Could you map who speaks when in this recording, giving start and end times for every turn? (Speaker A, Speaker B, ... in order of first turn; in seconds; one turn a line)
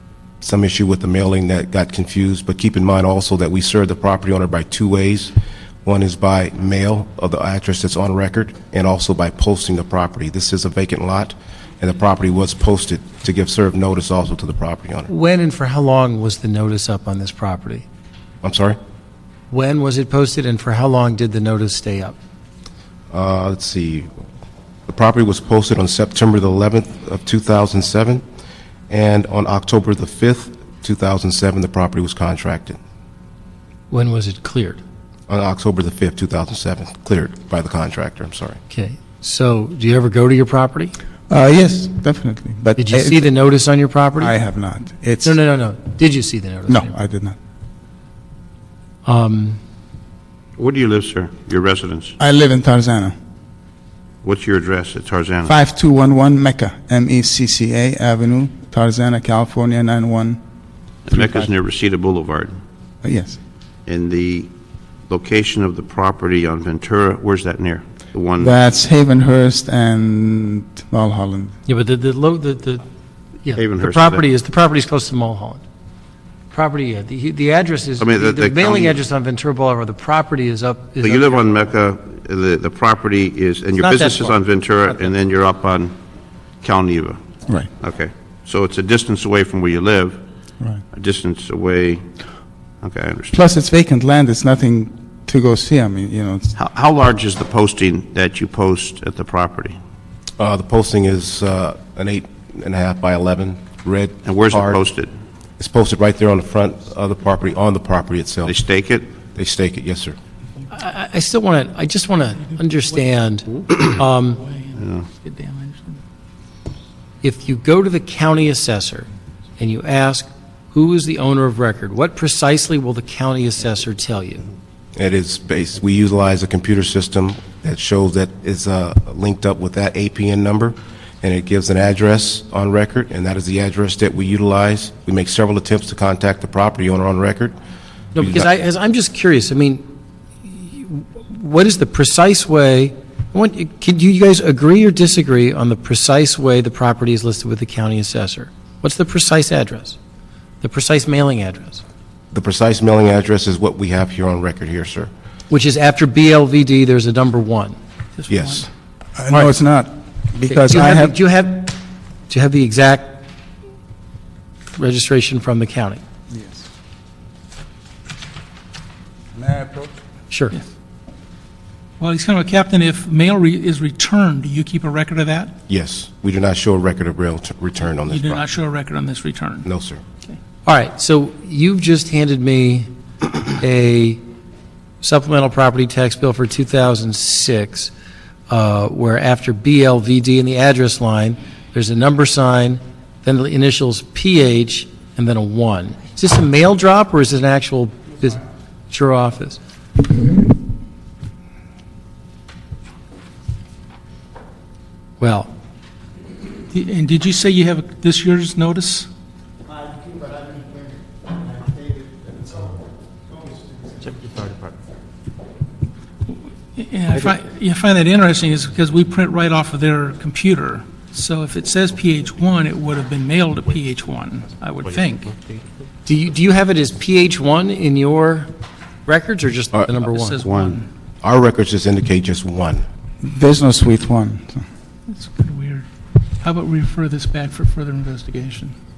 Speaker A: 0.4-5.3
Speaker A: 5.8-15.1
Speaker B: 15.1-17.9
Speaker A: 18.4-18.8
Speaker B: 19.5-22.2
Speaker A: 23.1-24.1
Speaker A: 24.9-28.2
Speaker A: 28.9-32.8
Speaker B: 33.9-34.8
Speaker A: 35.3-38.6
Speaker B: 38.7-41.0
Speaker C: 41.3-43.3
Speaker B: 42.8-44.4
Speaker C: 44.2-45.4
Speaker B: 45.2-47.0
Speaker C: 46.7-47.4
Speaker B: 49.1-49.6
Speaker D: 50.6-52.2
Speaker C: 52.2-53.1
Speaker D: 54.2-55.5
Speaker C: 55.5-60.4
Speaker D: 61.1-62.6
Speaker C: 61.1-61.5
Speaker C: 63.0-63.4
Speaker D: 63.9-64.5
Speaker D: 65.1-68.6
Speaker C: 68.4-71.5
Speaker B: 71.7-72.8
Speaker B: 73.4-75.6
Speaker D: 73.5-74.2
Speaker B: 76.5-81.7
Speaker D: 78.0-79.0
Speaker D: 81.0-86.0
Speaker B: 83.7-85.0
Speaker D: 86.6-87.2
Speaker D: 87.8-90.2
Speaker D: 90.9-92.0
Speaker D: 92.8-93.4
Speaker C: 93.3-96.5
Speaker D: 96.5-99.8
Speaker A: 100.4-104.8
Speaker D: 104.2-105.1
Speaker A: 105.6-108.5
Speaker D: 108.5-109.1
Speaker A: 109.3-110.2
Speaker B: 110.7-114.4
Speaker E: 114.4-116.0
Speaker D: 114.8-115.1
Speaker B: 117.2-119.1
Speaker B: 119.6-124.5
Speaker A: 125.0-137.6
Speaker B: 138.2-139.8
Speaker A: 138.2-138.5
Speaker B: 140.4-150.0
Speaker B: 150.6-151.8
Speaker A: 152.3-155.1
Speaker B: 155.5-157.8
Speaker E: 158.2-158.7
Speaker A: 158.3-158.7
Speaker C: 159.2-161.2
Speaker B: 160.5-163.2
Speaker B: 164.8-166.0
Speaker C: 166.3-166.7
Speaker C: 169.3-169.9
Speaker B: 170.3-170.6
Speaker E: 172.0-175.5
Speaker A: 175.7-178.5
Speaker E: 178.1-179.7
Speaker A: 179.7-180.0
Speaker B: 180.7-182.9
Speaker B: 183.4-184.2
Speaker B: 185.0-187.9
Speaker B: 188.5-199.6
Speaker B: 205.2-205.5
Speaker E: 206.7-209.1
Speaker D: 214.2-214.6
Speaker E: 216.8-225.3
Speaker B: 226.1-228.5
Speaker B: 229.1-230.4
Speaker E: 230.0-230.9
Speaker D: 230.4-230.8
Speaker A: 231.2-232.8
Speaker C: 233.2-234.6
Speaker E: 235.1-235.9
Speaker E: 236.4-238.8